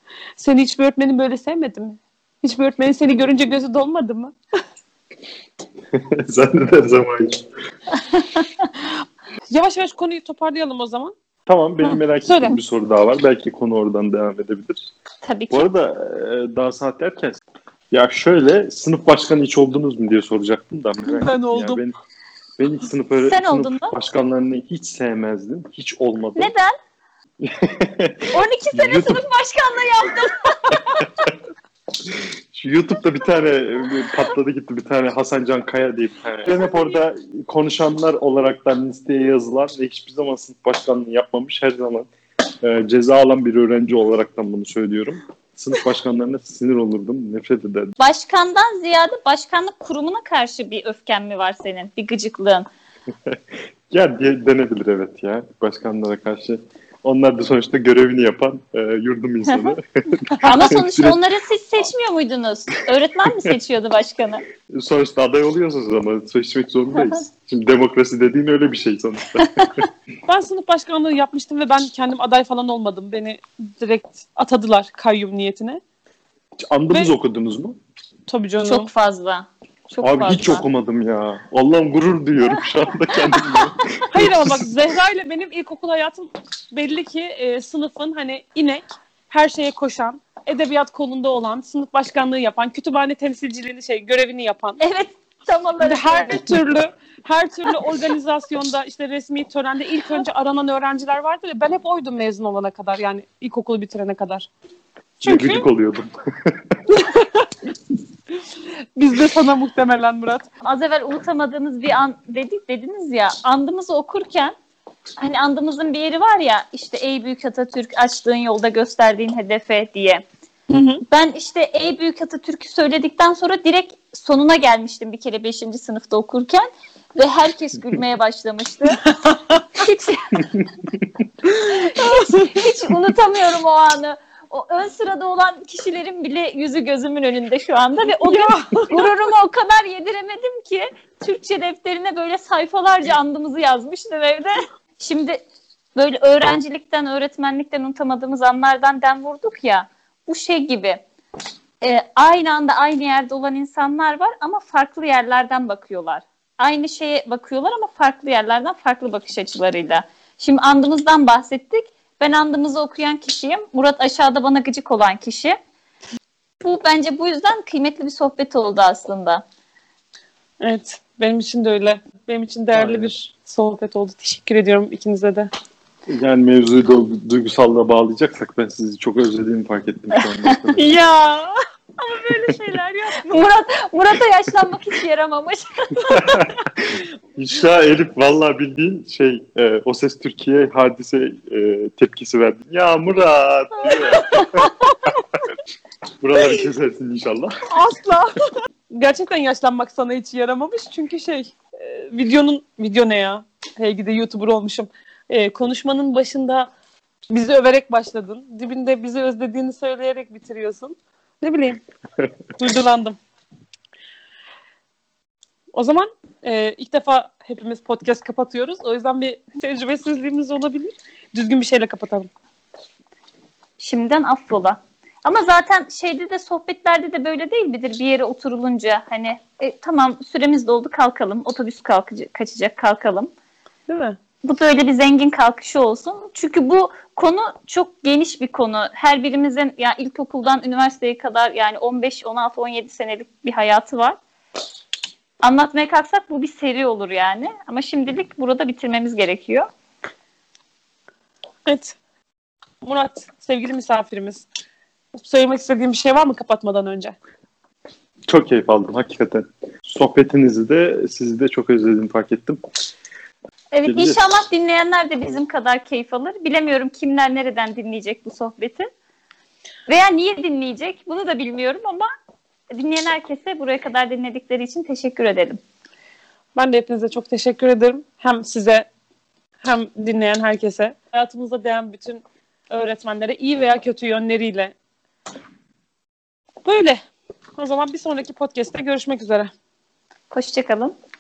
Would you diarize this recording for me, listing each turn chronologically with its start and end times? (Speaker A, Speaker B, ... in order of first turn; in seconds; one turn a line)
Speaker A: 0.4-4.3
Speaker B: 5.9-7.4
Speaker C: 8.1-8.6
Speaker A: 9.5-11.1
Speaker B: 11.5-14.8
Speaker A: 11.8-12.6
Speaker C: 15.2-15.7
Speaker B: 15.5-21.9
Speaker A: 21.1-21.8
Speaker B: 22.6-26.5
Speaker C: 23.2-24.0
Speaker C: 26.4-26.8
Speaker B: 27.4-29.2
Speaker C: 28.3-31.1
Speaker B: 32.0-42.1
Speaker B: 42.6-47.9
Speaker C: 48.0-52.7
Speaker B: 53.9-61.2
Speaker C: 59.5-59.8
Speaker C: 60.4-64.5
Speaker B: 64.7-69.8
Speaker A: 70.3-75.8
Speaker B: 76.7-77.8
Speaker A: 78.3-78.9
Speaker C: 78.6-80.7
Speaker B: 80.0-84.7
Speaker A: 84.1-94.8
Speaker C: 94.8-96.4
Speaker A: 95.8-104.5
Speaker A: 105.2-105.7
Speaker B: 105.3-106.8
Speaker A: 106.9-107.5
Speaker A: 109.0-110.5
Speaker C: 110.6-114.5
Speaker C: 115.2-120.2
Speaker A: 120.7-121.0
Speaker C: 121.1-129.0
Speaker A: 129.1-129.6
Speaker C: 129.7-130.5
Speaker A: 131.5-132.7
Speaker C: 131.6-145.4
Speaker A: 138.1-139.1
Speaker C: 146.0-151.0
Speaker C: 151.8-165.6
Speaker C: 166.6-169.4
Speaker A: 170.6-175.5
Speaker B: 172.7-173.1
Speaker B: 176.1-180.8
Speaker C: 180.4-181.6
Speaker A: 182.1-183.4
Speaker C: 183.2-186.3
Speaker B: 186.1-194.7
Speaker A: 193.9-195.0
Speaker B: 196.2-197.6
Speaker A: 197.7-198.4
Speaker A: 198.9-206.7
Speaker A: 207.3-211.8
Speaker A: 212.6-213.2
Speaker A: 215.7-222.3
Speaker C: 223.8-233.3
Speaker A: 233.9-234.2
Speaker C: 234.4-244.2
Speaker C: 245.4-249.7
Speaker A: 251.7-252.0
Speaker A: 252.8-254.5
Speaker A: 255.2-257.2
Speaker B: 258.3-262.6
Speaker C: 263.7-268.9
Speaker B: 263.9-264.2
Speaker C: 269.9-272.1
Speaker C: 272.7-275.6
Speaker A: 276.6-278.9
Speaker A: 279.6-284.7
Speaker A: 286.6-287.0
Speaker A: 287.6-289.5
Speaker C: 290.3-290.9